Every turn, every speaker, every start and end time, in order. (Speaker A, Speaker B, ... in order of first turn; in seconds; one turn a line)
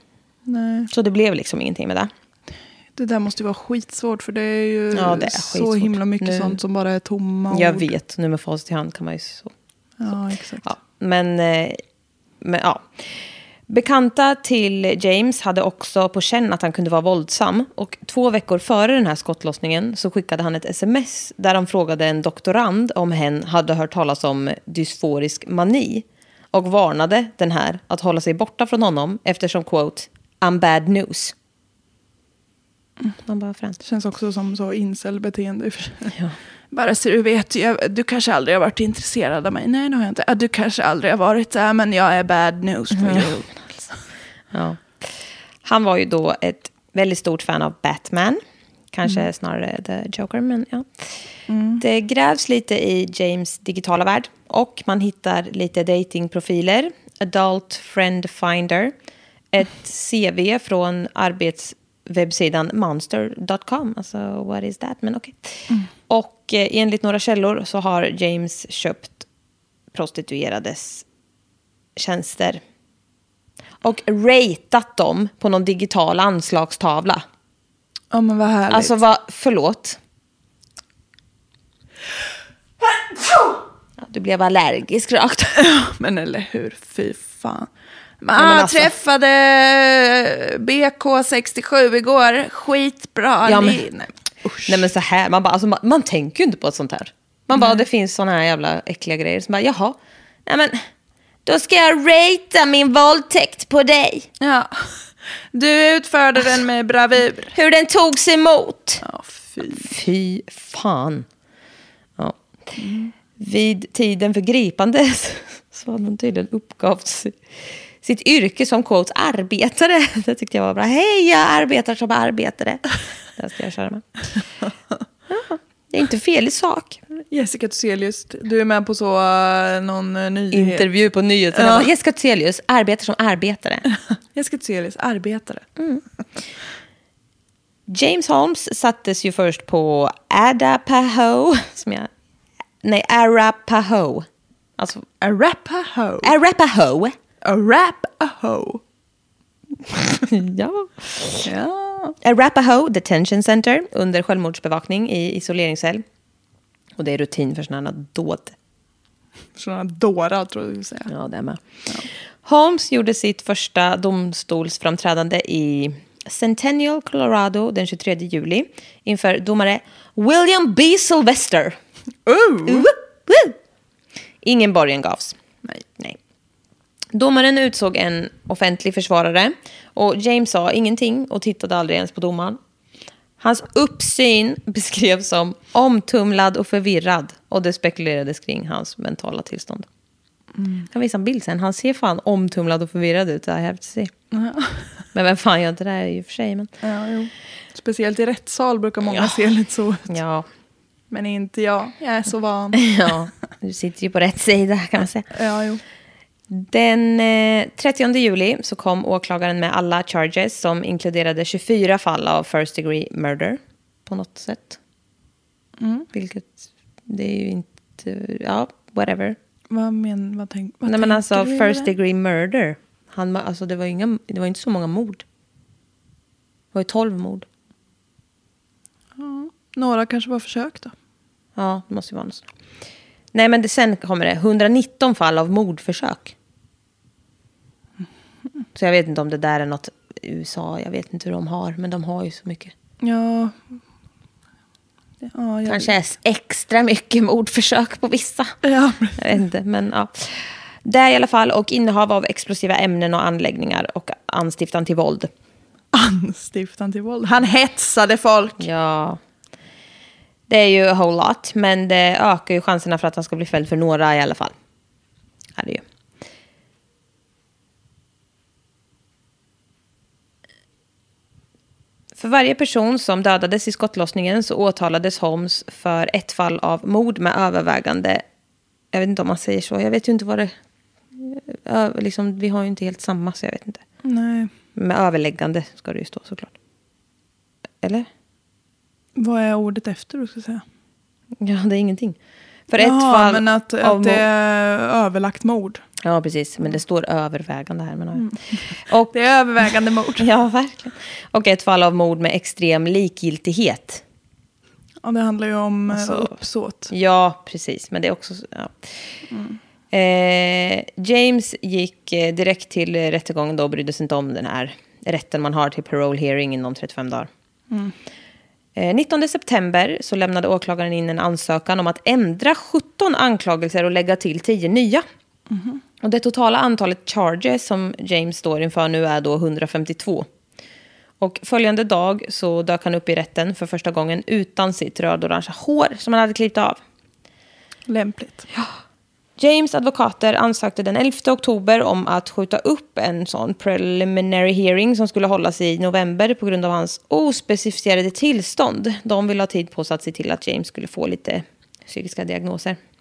Speaker A: 0.5-0.9
Speaker B: 0.9-2.1
Speaker A: 3.0-7.9
Speaker B: 4.9-6.6
Speaker B: 7.5-9.5
Speaker A: 10.0-10.7
Speaker B: 10.6-11.8
Speaker B: 12.4-31.3
Speaker B: 33.2-33.8
Speaker A: 33.8-36.1
Speaker A: 36.7-43.5
Speaker B: 42.9-43.3
Speaker B: 44.5-45.1
Speaker B: 45.6-48.4
Speaker B: 48.9-51.1
Speaker A: 51.5-51.8
Speaker B: 51.8-58.9
Speaker B: 59.5-69.3
Speaker B: 69.9-71.0
Speaker B: 72.0-72.6
Speaker B: 73.8-77.2
Speaker A: 78.1-79.0
Speaker B: 78.7-80.0
Speaker B: 84.0-85.6
Speaker A: 85.6-87.7
Speaker A: 88.2-94.8
Speaker B: 88.4-88.9
Speaker B: 93.5-93.8
Speaker B: 94.7-100.8
Speaker B: 101.5-104.3
Speaker A: 104.4-107.5
Speaker B: 107.5-109.0
Speaker A: 109.0-109.9
Speaker B: 109.7-111.3
Speaker A: 112.8-113.1
Speaker B: 113.4-117.4
Speaker B: 118.0-124.0
Speaker B: 125.3-127.0
Speaker A: 127.3-130.9
Speaker B: 130.5-133.9
Speaker A: 131.6-131.9
Speaker A: 134.3-135.7
Speaker B: 135.8-136.0
Speaker B: 137.9-142.1
Speaker B: 142.8-144.3
Speaker B: 144.8-145.1
Speaker A: 145.2-146.3
Speaker B: 146.2-147.2
Speaker A: 147.4-148.8
Speaker B: 150.3-151.5
Speaker A: 151.4-152.2
Speaker B: 152.2-156.0
Speaker B: 157.0-158.6
Speaker A: 159.6-161.1
Speaker B: 161.1-161.8
Speaker B: 162.4-171.8
Speaker A: 172.3-172.9
Speaker B: 172.7-173.6
Speaker B: 174.4-175.4
Speaker B: 177.1-182.6
Speaker B: 183.4-189.9
Speaker A: 190.6-190.9
Speaker B: 190.9-194.1
Speaker A: 194.3-194.9
Speaker B: 195.1-196.7
Speaker A: 196.8-200.1
Speaker B: 200.1-200.5
Speaker A: 201.1-202.9
Speaker B: 202.8-205.3
Speaker A: 205.3-205.8
Speaker B: 206.5-214.8
Speaker A: 215.8-216.1
Speaker B: 216.1-219.4
Speaker A: 219.7-221.9
Speaker B: 220.9-225.2
Speaker B: 226.7-227.5
Speaker A: 229.2-230.9
Speaker B: 231.6-232.5
Speaker B: 233.3-236.3
Speaker B: 238.8-242.7
Speaker A: 243.0-243.6
Speaker A: 245.2-245.9
Speaker B: 245.7-248.6
Speaker A: 248.6-249.3
Speaker B: 249.2-255.3
Speaker A: 255.9-258.7
Speaker B: 258.6-259.2
Speaker B: 260.5-264.5
Speaker B: 265.6-265.8
Speaker B: 272.2-278.2
Speaker B: 278.9-280.5
Speaker B: 281.2-283.8
Speaker A: 284.0-284.5
Speaker B: 284.8-286.5
Speaker B: 287.8-288.1
Speaker A: 289.2-290.6
Speaker B: 291.4-292.2
Speaker B: 292.7-294.2
Speaker A: 292.8-295.8
Speaker B: 296.0-299.1
Speaker A: 299.1-300.3
Speaker B: 300.2-304.0
Speaker A: 305.0-306.9
Speaker B: 305.9-306.4
Speaker B: 306.9-309.1
Speaker A: 309.3-309.6
Speaker B: 309.9-317.3
Speaker A: 317.7-317.9
Speaker B: 318.8-325.1
Speaker A: 325.5-325.8
Speaker B: 326.0-330.3
Speaker B: 331.2-336.8
Speaker A: 337.9-338.4
Speaker B: 339.4-352.8